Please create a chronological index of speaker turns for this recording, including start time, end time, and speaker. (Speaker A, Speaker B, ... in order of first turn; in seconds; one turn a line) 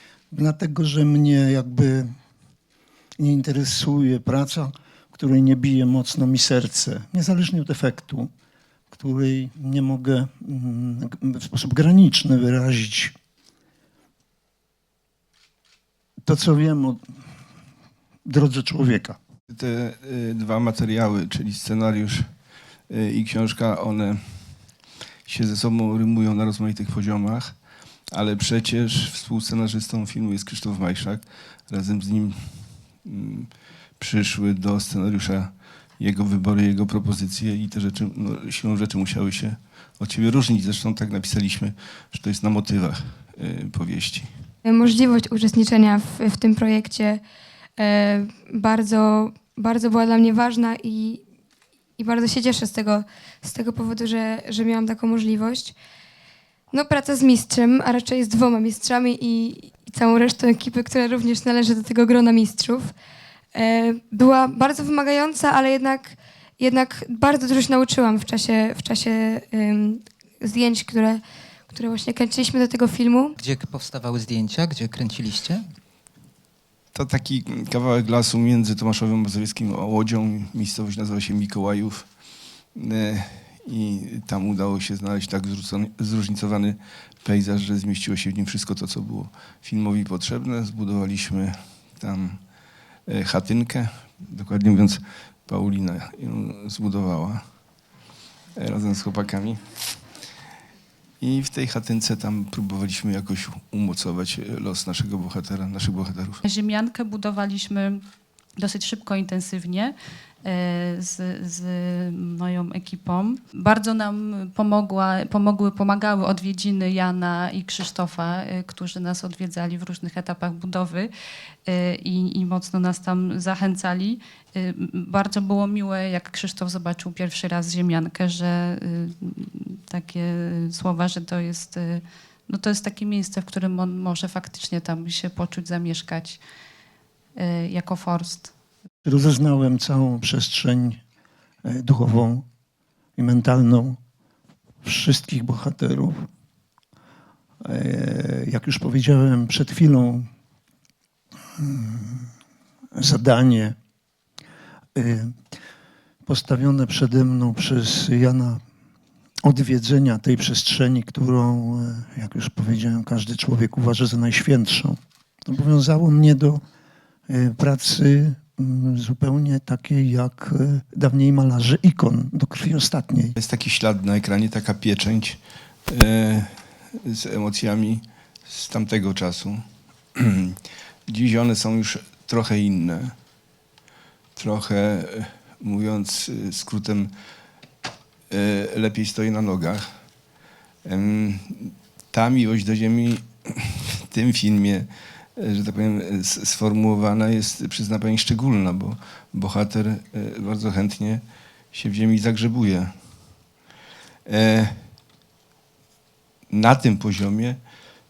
Speaker A: 0.3-2.1
Speaker A: 3.2-8.3
Speaker A: 8.9-13.1
Speaker A: 16.2-17.0
Speaker A: 18.3-19.2
Speaker B: 19.5-22.3
Speaker B: 22.9-24.2
Speaker B: 25.3-27.6
Speaker B: 28.1-44.3
Speaker C: 44.6-47.2
Speaker C: 47.8-51.2
Speaker C: 52.0-55.8
Speaker C: 56.7-62.9
Speaker C: 63.5-73.3
Speaker D: 73.4-75.7
Speaker B: 76.9-82.1
Speaker B: 82.8-92.4
Speaker B: 93.1-97.4
Speaker B: 98.5-99.6
Speaker B: 101.2-106.4
Speaker E: 106.4-108.0
Speaker E: 108.6-121.1
Speaker E: 121.7-136.4
Speaker E: 137.4-138.5
Speaker A: 139.1-141.0
Speaker A: 141.7-142.4
Speaker A: 143.2-144.0
Speaker A: 144.8-146.3
Speaker A: 147.6-150.3
Speaker A: 151.6-152.3
Speaker A: 152.9-153.8
Speaker A: 155.0-155.3
Speaker A: 156.3-158.6
Speaker A: 159.4-166.6
Speaker A: 167.3-173.4
Speaker B: 173.4-179.6
Speaker B: 180.2-180.6
Speaker B: 181.1-183.2
Speaker B: 184.4-187.1
Speaker B: 188.3-189.9
Speaker B: 190.8-202.9
Speaker B: 204.3-204.9
Speaker B: 206.5-207.6